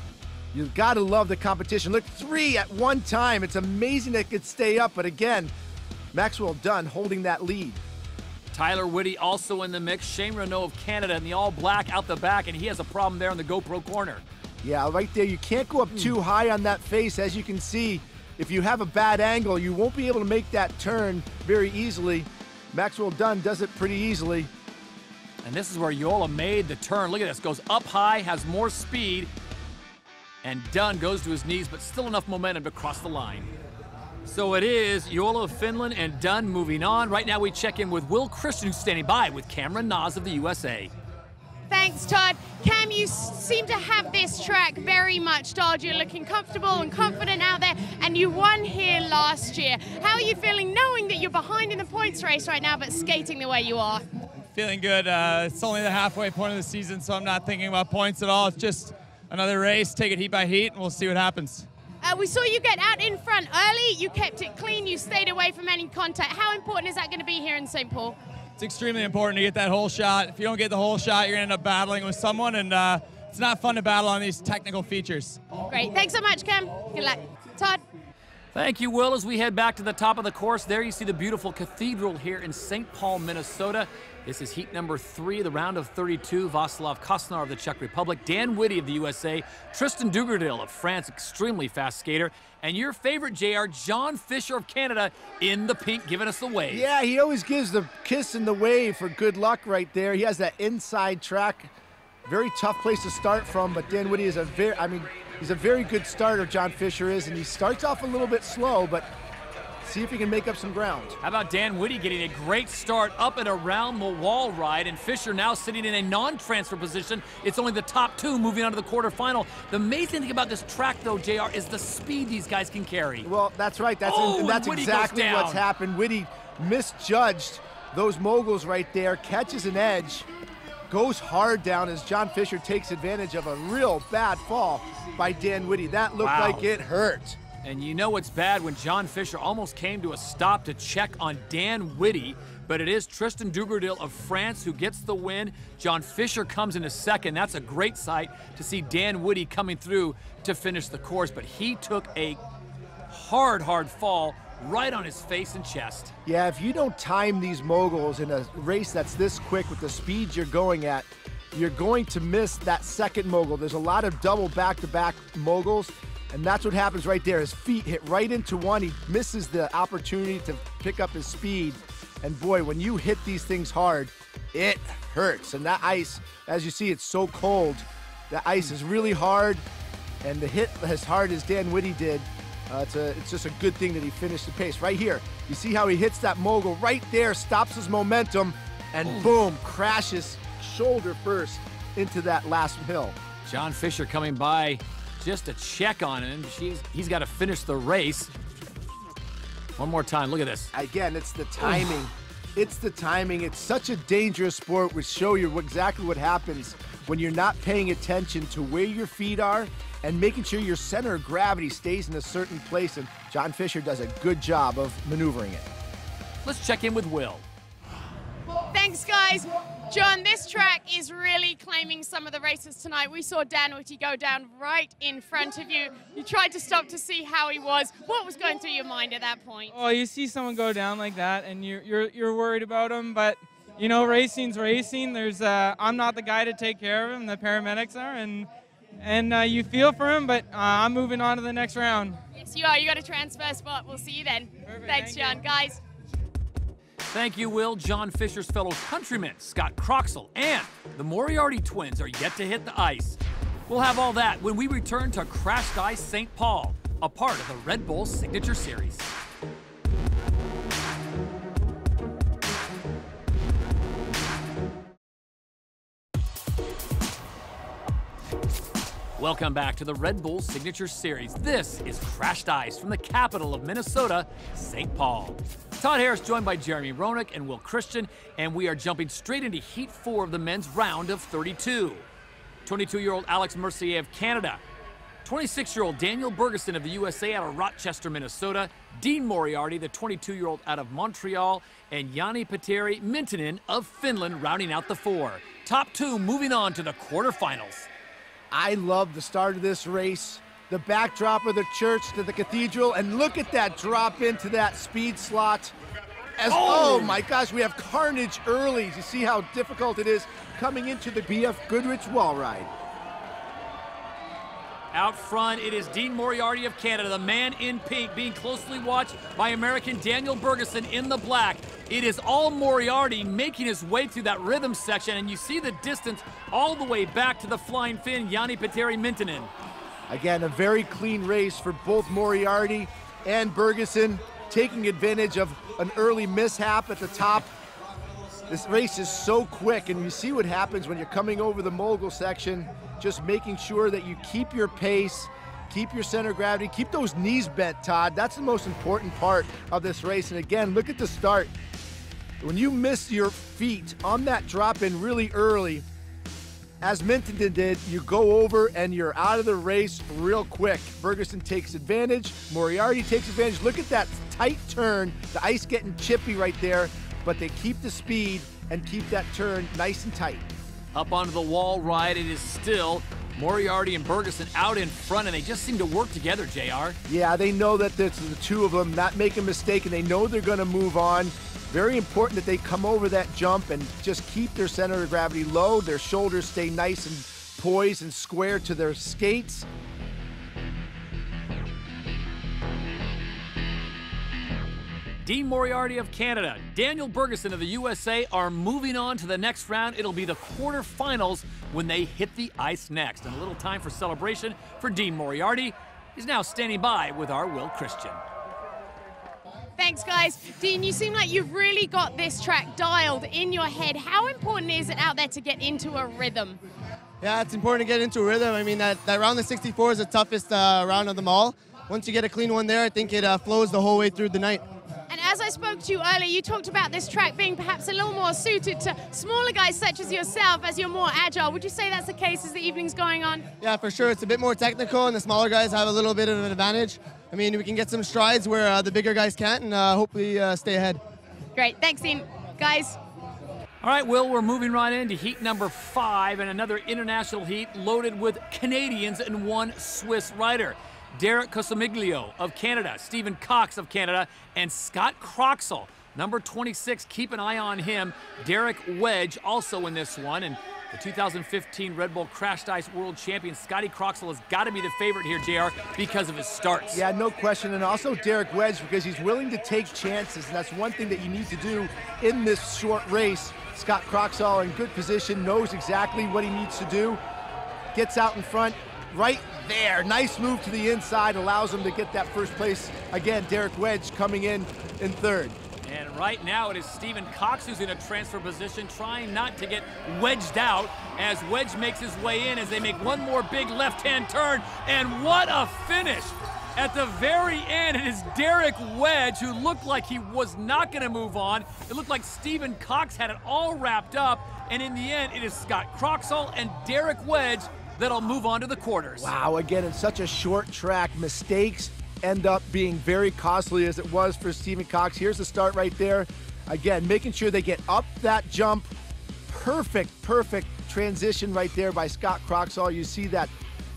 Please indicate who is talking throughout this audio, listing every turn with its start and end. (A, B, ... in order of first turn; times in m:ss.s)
0:00.5-0:05.5 A
0:06.1-0:07.8 A
0:08.5-0:14.2 B
0:14.6-0:24.5 A
0:25.4-0:29.3 B
0:30.4-0:33.5 B
0:34.2-0:40.9 B
0:41.7-0:54.0 C
0:54.5-1:01.7 D
1:02.0-1:08.2 C
1:08.6-1:15.4 D
1:15.7-1:17.8 C
1:18.5-1:36.8 B
1:36.7-1:41.7 A
1:42.2-1:49.1 A
1:49.8-1:51.2 A
1:51.2-2:03.3 B
2:03.2-2:10.3 A
2:04.0-2:05.6 B
2:10.9-2:17.4 A
2:16.2-2:16.7 B
2:17.6-2:32.4 B
2:33.1-2:36.1 B
2:36.2-2:59.6 A
3:00.2-3:13.2 A
3:13.4-3:18.3 B
3:19.8-3:20.7 B
3:20.7-3:35.7 A
3:36.4-3:37.4 B
3:38.7-3:49.8 C
3:49.7-3:58.5 E
3:59.0-4:02.2 E
4:02.4-4:05.8 C
4:04.6-4:05.4 E
4:07.1-4:19.1 B
4:29.2-4:42.0 B
4:42.6-4:44.6 B
4:45.2-4:57.9 B
4:58.5-5:05.7 A
5:06.4-5:12.7 A
5:06.5-5:07.2 B
5:14.9-5:29.5 B
5:30.1-5:37.5 A
5:38.5-5:51.5 A
5:52.4-5:55.8 A
5:56.8-6:10.5 A
6:10.9-6:17.0 B
6:17.1-6:29.7 A
6:35.2-6:48.2 B
6:49.8-6:56.6 C
6:57.2-7:04.7 F
7:05.1-7:13.5 C
7:13.6-7:21.0 F
7:21.6-7:23.0 C
7:23.8-7:47.0 B
7:46.9-7:57.2 A
7:57.9-8:05.6 A
8:05.8-8:29.3 B
8:29.2-8:38.9 A
8:39.5-8:43.5 A